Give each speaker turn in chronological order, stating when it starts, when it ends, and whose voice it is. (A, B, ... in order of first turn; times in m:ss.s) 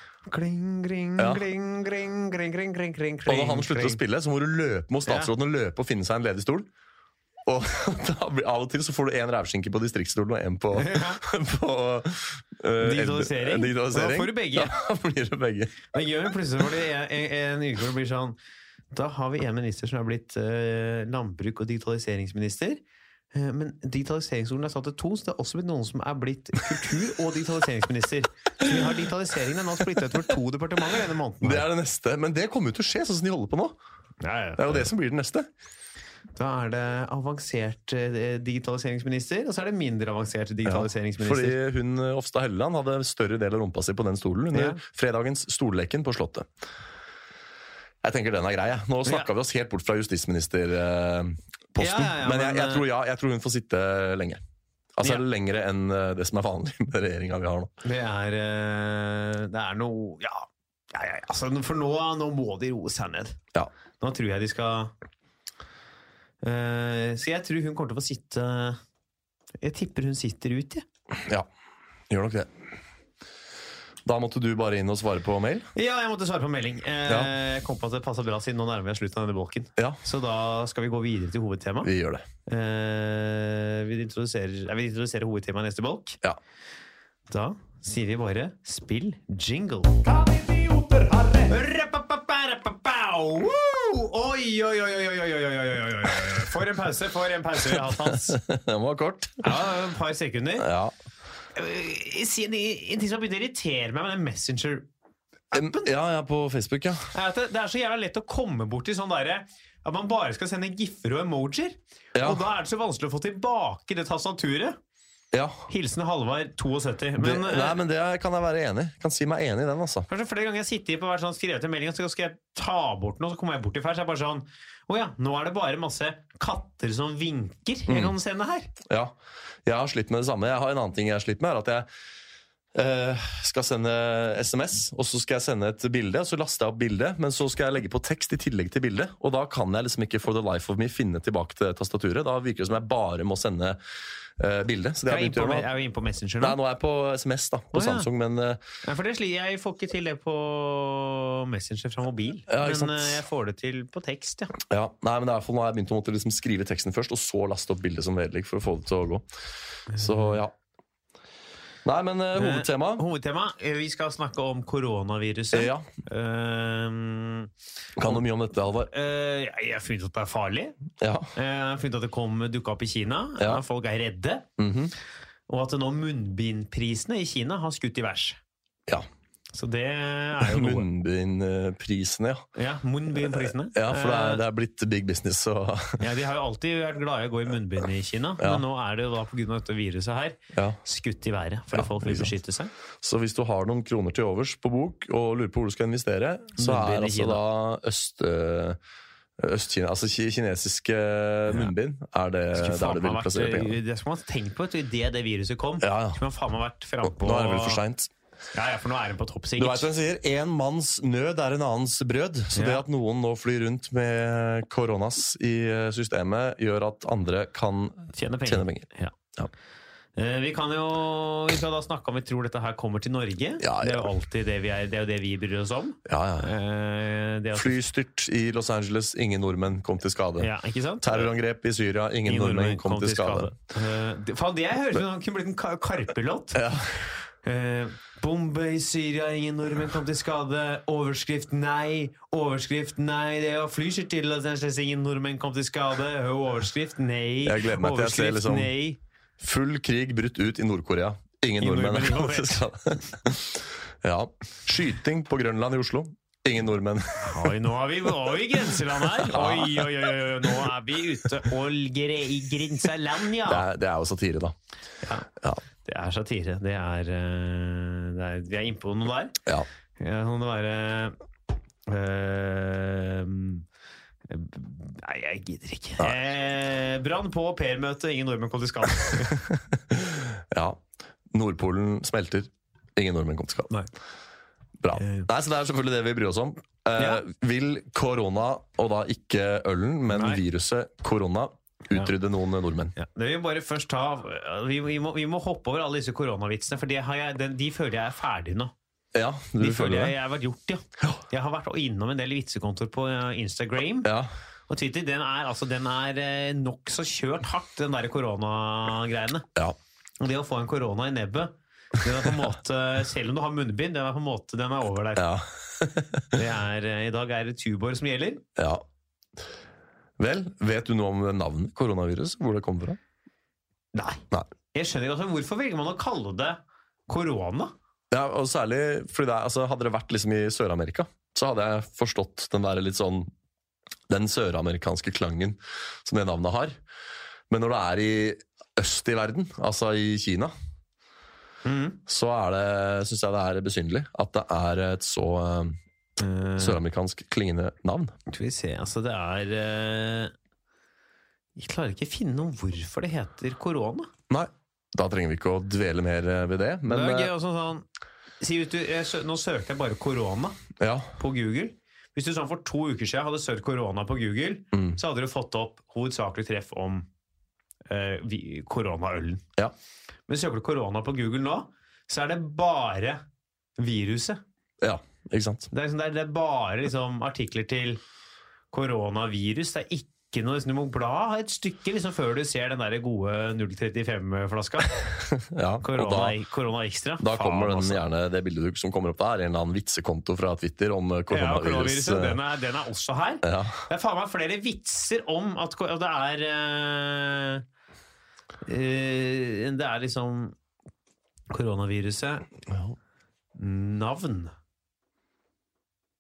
0:00.3-0:04.0 A
0:01.2-0:01.4 B
0:03.3-0:06.7 B
0:05.1-0:05.3 A
0:07.4-0:15.9 B
0:10.7-0:11.2 A
0:12.8-0:14.7 A
0:15.9-0:18.4 A
0:18.9-0:22.8 A
0:23.3-0:31.7 A
0:31.4-0:33.8 B
0:34.2-0:34.9 A
0:34.6-0:35.5 B
0:36.4-0:41.6 A
0:40.6-0:46.5 B
0:44.5-0:44.8 A
0:48.0-0:54.4 B
0:51.8-0:52.9 A
0:55.0-0:57.7 B
0:57.8-1:03.4 A
1:04.0-1:04.9 A
1:06.4-1:08.8 A
1:09.6-1:10.8 A
1:12.1-1:12.5 B
1:14.0-1:15.7 B
1:15.8-1:21.9 A
1:21.8-1:22.2 B
1:22.5-1:26.2 A
1:27.3-1:38.4 A
1:37.7-1:39.6 B
1:39.4-1:40.7 A
1:40.6-1:40.9 B
1:41.6-1:44.9 A
1:45.5-1:45.9 A
1:45.5-1:47.1 B
1:47.1-1:54.8 A
1:52.2-1:52.4 B
1:55.3-1:55.7 B
1:55.7-1:57.8 A
1:57.2-2:00.1 B
2:00.1-2:08.7 A
2:07.9-2:08.1 B
2:08.9-2:09.1 B
2:09.7-2:11.9 B
2:12.7-2:23.8 B
2:24.4-2:25.7 B
2:25.1-2:26.6 A
2:26.4-2:28.6 B
2:27.7-2:28.1 A
2:28.8-2:34.6 A
2:32.5-2:33.2 B
2:34.7-2:39.3 B
2:39.9-2:40.4 A
2:39.9-2:40.5 B
2:41.8-2:43.0 B
2:42.3-2:47.5 A
2:45.5-2:45.9 B
2:48.0-2:48.9 B
2:48.9-2:50.8 A
2:51.0-2:51.3 B
2:51.4-2:54.5 A
2:54.6-2:54.9 B
2:55.5-2:58.4 A
2:59.5-3:00.9 A
3:00.4-3:02.4 B
3:02.6-3:04.4 A
3:03.2-3:06.0 B
3:06.0-3:12.7 A
3:10.5-3:10.8 B
3:11.7-3:12.4 B
3:13.0-3:18.8 B
3:16.6-3:17.4 A
3:19.4-3:23.8 B
3:22.5-3:27.8 A
3:25.8-3:26.2 B
3:27.0-3:28.1 B
3:28.5-3:29.9 A
3:29.6-3:39.5 B
3:32.5-3:32.8 A
3:38.1-3:39.2 A
3:40.2-3:47.8 A
3:43.6-3:44.1 B
3:46.1-3:46.5 B
3:47.5-3:50.5 B
3:50.4-3:51.4 A
3:51.0-3:53.5 B
3:52.2-3:56.6 A
3:56.5-3:57.0 B
3:57.4-4:09.0 A
4:07.4-4:08.7 B
4:09.4-4:17.5 B
4:11.6-4:12.6 A
4:17.2-4:23.7 A
4:19.2-4:20.7 B
4:23.4-4:24.6 B
4:25.0-4:25.3 A
4:25.8-4:29.4 A
4:30.0-4:31.2 A
4:31.9-4:33.6 A
4:34.3-4:39.4 A
4:39.5-4:43.7 B
4:44.8-4:53.0 B
4:45.0-4:45.3 A
4:47.0-4:47.2 A
4:50.1-4:50.4 A
4:53.0-4:58.7 A
4:59.1-5:00.2 B
4:59.6-5:04.1 A
5:04.0-5:04.3 B
5:04.7-5:09.5 A
5:10.2-5:15.3 A
5:15.2-5:16.3 B
5:16.3-5:18.4 A
5:18.6-5:18.8 B
5:20.2-5:23.0 B
5:23.9-5:27.7 A
5:28.1-5:33.3 B
5:34.1-5:36.8 B
5:37.5-5:40.5 B
5:41.6-5:42.0 A
5:42.1-5:45.8 B
5:46.2-5:46.8 A
5:46.6-5:48.1 B
5:48.3-5:50.3 A
5:51.6-5:54.1 A
5:54.3-5:57.3 B
5:56.9-5:57.9 A
5:58.4-6:00.6 A
6:00.8-6:01.1 B
6:01.2-6:07.1 A
6:04.7-6:05.0 B
6:07.9-6:09.4 A
6:10.3-6:13.2 A
6:13.8-6:14.4 A
6:14.8-6:15.7 B
6:15.7-6:18.0 A
6:18.7-6:25.2 A
6:25.3-6:26.4 B
6:25.8-6:28.0 A
6:27.2-6:32.4 B
6:31.3-6:37.6 A
6:33.4-6:33.8 B
6:38.6-6:40.6 A
6:41.5-6:42.5 A
6:43.6-6:44.5 A